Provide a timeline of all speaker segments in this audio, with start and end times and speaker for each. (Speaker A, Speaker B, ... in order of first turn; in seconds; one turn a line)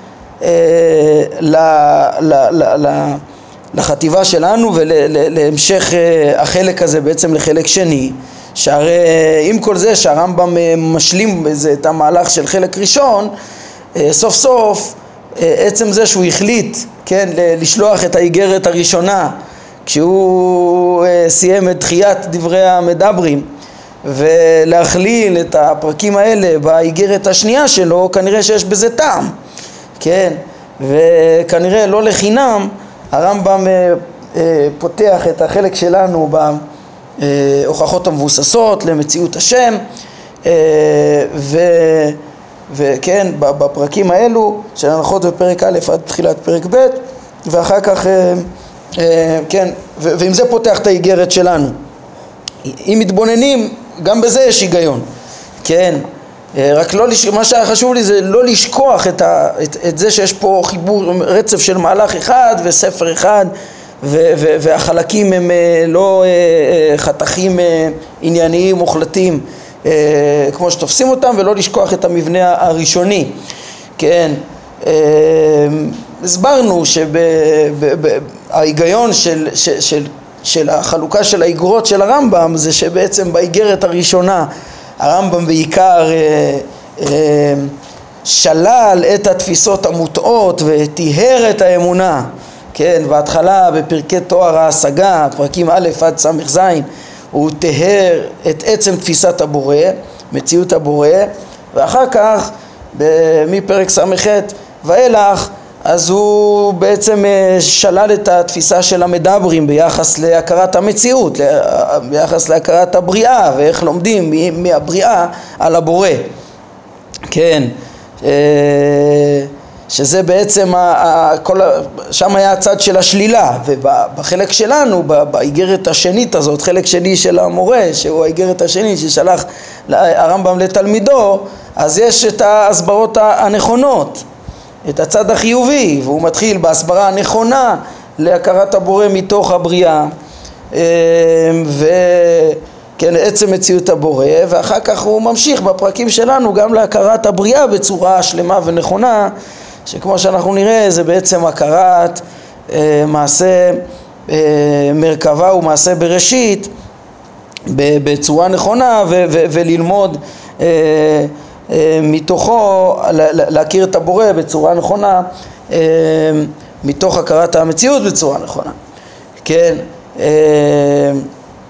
Speaker A: 0.4-3.2
Speaker A: 3.7-13.3
Speaker A: 13.9-23.5
Speaker A: 24.0-29.3
Speaker A: 30.0-36.6
Speaker A: 37.2-39.8
Speaker A: 40.4-42.2
Speaker A: 42.7-48.5
Speaker A: 49.0-51.8
Speaker A: 52.6-55.0
Speaker A: 55.6-56.0
Speaker A: 56.5-73.3
Speaker A: 74.0-87.7
Speaker A: 88.2-116.3
Speaker A: 117.3-134.2
Speaker A: 134.9-140.1
Speaker A: 140.7-149.3
Speaker A: 149.9-156.7
Speaker A: 157.7-168.8
Speaker A: 169.4-171.2